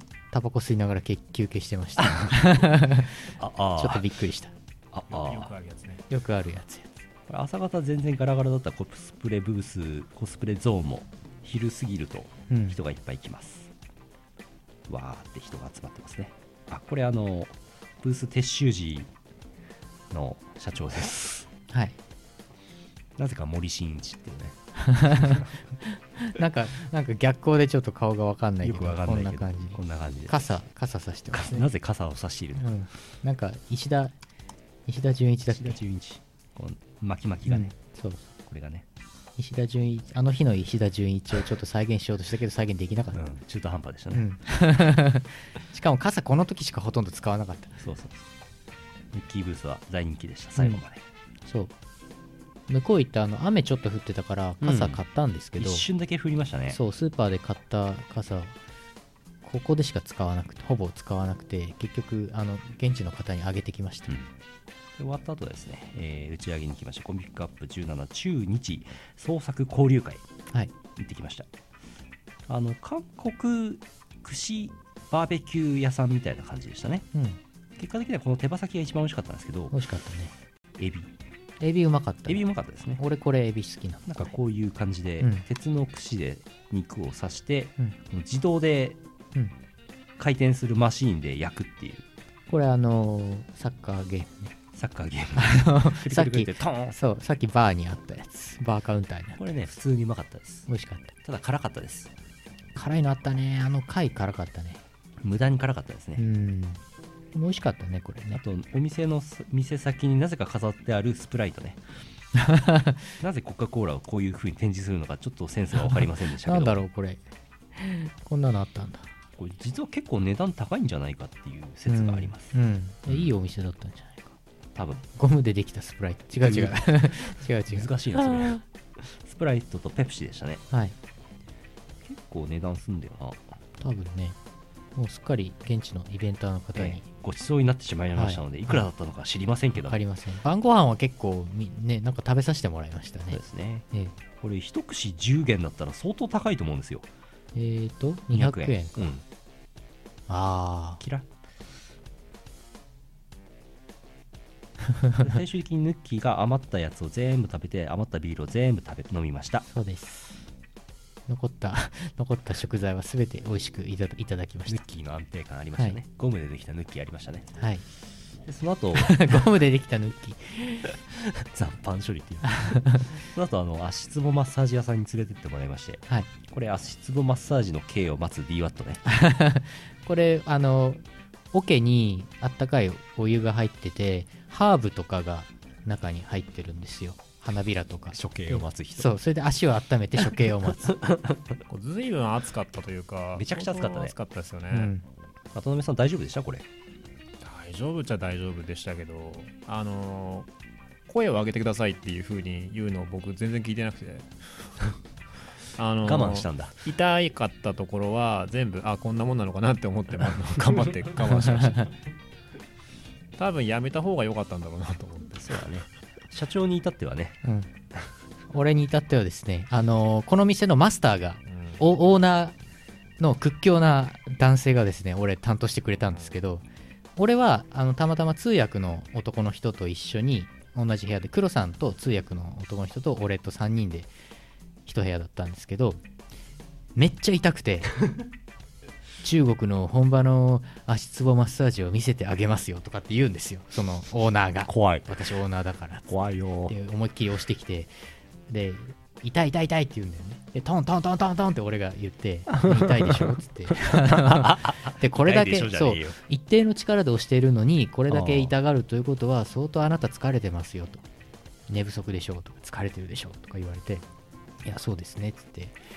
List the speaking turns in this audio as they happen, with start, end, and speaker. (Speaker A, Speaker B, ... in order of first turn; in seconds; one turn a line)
Speaker A: 0.3-3.2
Speaker B: 2.0-4.1
Speaker A: 3.8-4.5
Speaker B: 4.9-5.5
Speaker C: 5.1-6.1
Speaker A: 6.1-7.0
Speaker B: 7.3-13.7
Speaker A: 12.5-12.8
Speaker B: 14.9-19.1
Speaker B: 20.1-21.5
Speaker A: 21.7-22.0
Speaker B: 23.2-25.6
Speaker A: 24.8-25.4
Speaker A: 25.9-31.7
Speaker B: 28.6-30.4
Speaker B: 31.3-32.7
Speaker A: 32.6-34.1
Speaker A: 34.9-35.8
Speaker B: 35.5-37.7
Speaker A: 37.5-38.3
Speaker B: 38.5-38.9
Speaker A: 39.4-43.2
Speaker B: 43.1-44.3
Speaker A: 44.1-47.8
Speaker B: 47.8-48.3
Speaker B: 49.1-51.0
Speaker A: 50.6-50.8
Speaker A: 51.5-51.7
Speaker A: 52.7-55.9
Speaker B: 54.6-55.0
Speaker B: 55.6-56.8
Speaker A: 56.7-58.5
Speaker A: 59.4-64.1
Speaker B: 65.0-70.2
Speaker B: 71.0-71.5
Speaker B: 72.5-77.1
Speaker B: 77.8-79.8
Speaker A: 79.7-80.3
Speaker B: 80.8-81.1
Speaker A: 81.6-82.4
Speaker B: 82.3-83.0
Speaker A: 83.0-84.4
Speaker B: 84.1-89.0
Speaker A: 85.2-85.5
Speaker B: 90.2-92.0
Speaker A: 92.5-94.5
Speaker B: 94.7-97.0
Speaker A: 95.4-99.4
Speaker B: 99.4-100.7
Speaker A: 100.7-101.1
Speaker B: 101.2-102.1
Speaker A: 102.8-104.8
Speaker B: 105.2-106.2
Speaker A: 106.2-106.8
Speaker A: 107.3-108.4
Speaker B: 108.3-111.8
Speaker A: 112.4-113.0
Speaker B: 113.2-116.8
Speaker A: 115.8-117.2
Speaker A: 117.8-119.1
Speaker B: 119.4-122.5
Speaker A: 121.9-124.4
Speaker B: 124.8-125.0
Speaker A: 125.2-128.6
Speaker B: 126.4-130.6
Speaker B: 132.0-133.5
Speaker A: 133.8-134.4
Speaker A: 135.0-137.1
Speaker B: 136.8-140.0
Speaker A: 138.2-138.9
Speaker A: 139.8-143.4
Speaker B: 143.3-143.9
Speaker B: 144.4-147.1
Speaker A: 147.6-149.1
Speaker B: 148.3-149.2
Speaker A: 150.3-151.0
Speaker B: 151.0-151.3
Speaker B: 155.2-159.7
Speaker A: 159.7-160.3
Speaker A: 161.3-164.8
Speaker B: 164.7-167.6
Speaker A: 167.6-167.8
Speaker B: 168.4-169.5
Speaker A: 169.0-170.9
Speaker B: 171.1-179.0
Speaker A: 172.5-173.0
Speaker A: 179.1-191.0
Speaker B: 188.1-189.1
Speaker B: 190.4-191.6
Speaker C: 191.7-194.9
Speaker B: 193.3-194.2
Speaker A: 194.7-195.1
Speaker B: 195.5-196.7
Speaker C: 197.4-200.5
Speaker C: 201.1-204.7
Speaker C: 205.8-211.9
Speaker B: 206.0-206.8
Speaker A: 211.3-211.9
Speaker C: 213.4-215.8
Speaker B: 215.4-217.4
Speaker A: 217.4-217.7
Speaker A: 218.5-222.6
Speaker C: 221.5-221.8
Speaker A: 223.2-226.6
Speaker A: 227.2-234.1
Speaker A: 234.9-236.0
Speaker A: 236.9-238.0
Speaker A: 239.2-246.1
Speaker B: 244.7-245.2
Speaker B: 246.1-246.8
Speaker A: 246.7-247.9
Speaker A: 248.5-261.0
Speaker B: 252.5-256.2
Speaker B: 258.1-258.5
Speaker A: 261.7-264.1
Speaker A: 264.6-265.8